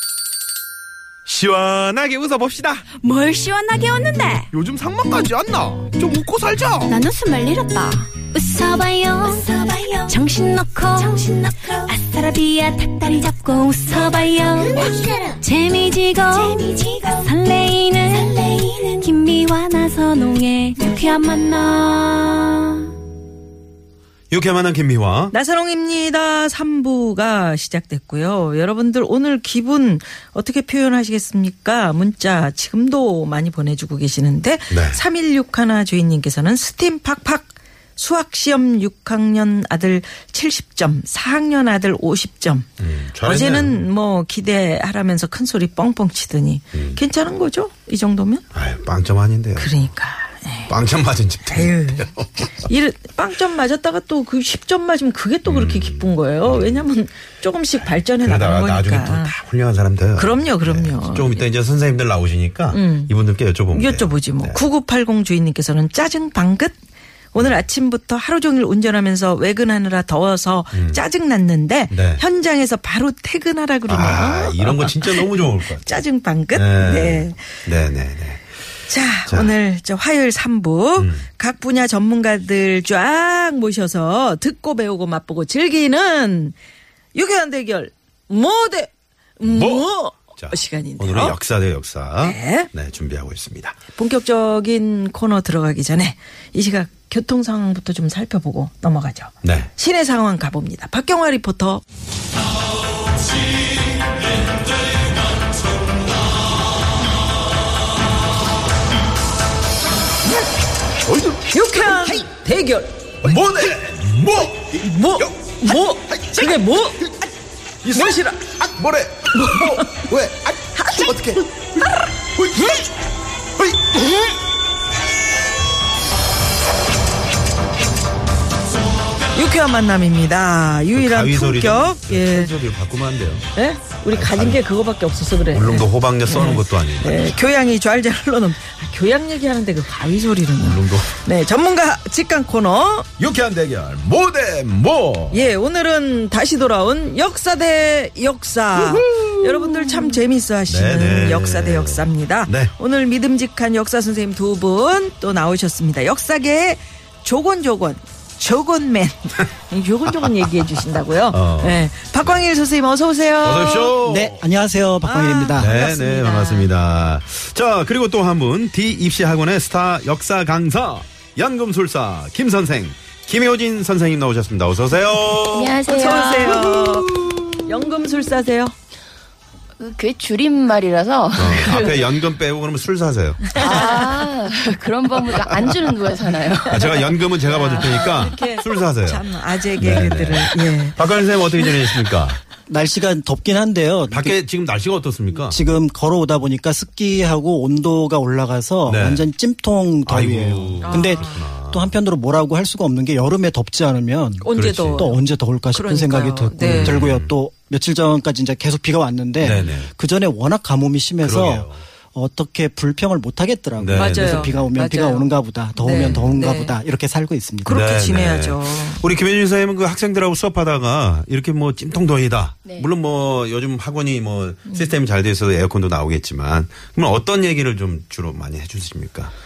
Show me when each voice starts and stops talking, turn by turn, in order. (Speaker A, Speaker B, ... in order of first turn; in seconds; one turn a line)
Speaker A: 1.2-2.9
Speaker B: 3.0-4.5
Speaker A: 4.5-6.9
Speaker B: 6.9-22.9
Speaker A: 24.3-25.3
Speaker C: 25.3-42.7
Speaker A: 34.7-35.0
Speaker A: 42.8-43.8
Speaker C: 43.2-48.4
Speaker A: 46.7-47.0
Speaker A: 48.5-49.8
Speaker C: 49.5-50.7
Speaker A: 50.7-52.7
Speaker C: 51.5-59.3
Speaker A: 55.5-56.9
Speaker A: 57.8-64.6
Speaker C: 60.2-61.5
Speaker C: 62.7-63.1
Speaker C: 63.7-66.7
Speaker C: 67.3-77.6
Speaker A: 70.7-71.0
Speaker A: 71.9-72.2
Speaker A: 73.9-76.0
Speaker A: 76.5-78.5
Speaker C: 78.9-86.5
Speaker A: 81.0-81.2
Speaker C: 87.1-91.4
Speaker A: 89.4-89.9
Speaker A: 90.4-93.8
Speaker C: 92.2-92.7
Speaker C: 93.9-101.8
Speaker A: 99.4-99.7
Speaker A: 111.0-112.2
Speaker C: 111.5-113.3
Speaker A: 113.2-117.1
Speaker C: 114.7-117.0
Speaker A: 117.8-122.8
Speaker C: 117.9-118.7
Speaker C: 119.3-120.1
Speaker C: 120.7-122.8
Speaker A: 123.6-123.9
Speaker C: 129.3-132.5
Speaker A: 130.9-133.5
Speaker C: 133.5-143.1
Speaker A: 134.1-134.6
Speaker A: 135.5-137.4
Speaker A: 140.6-141.2
Speaker A: 143.2-145.5
Speaker C: 145.3-163.9
Speaker A: 148.8-152.7
Speaker A: 160.2-160.7
Speaker A: 161.3-162.4
Speaker A: 163.4-164.4
Speaker D: 164.0-165.7
Speaker C: 165.0-166.7
Speaker A: 165.6-177.6
Speaker E: 175.5-176.8
Speaker C: 175.9-177.1
Speaker C: 177.6-178.7
Speaker E: 179.8-182.0
Speaker A: 181.3-184.1
Speaker C: 183.5-184.1
Speaker E: 183.6-187.9
Speaker A: 185.3-185.7
Speaker A: 186.7-189.2
Speaker C: 187.5-191.0
Speaker A: 189.8-192.4
Speaker D: 192.7-194.4
Speaker A: 194.1-195.6
Speaker D: 195.5-217.8
Speaker A: 198.9-199.2
Speaker A: 200.1-201.9
Speaker C: 200.8-201.4
Speaker C: 204.4-207.1
Speaker A: 204.6-205.1
Speaker A: 206.6-207.3
Speaker A: 209.4-209.9
Speaker A: 211.2-211.8
Speaker A: 213.8-214.7
Speaker C: 213.9-216.8
Speaker A: 216.0-216.3
Speaker C: 217.6-219.0
Speaker A: 217.7-229.3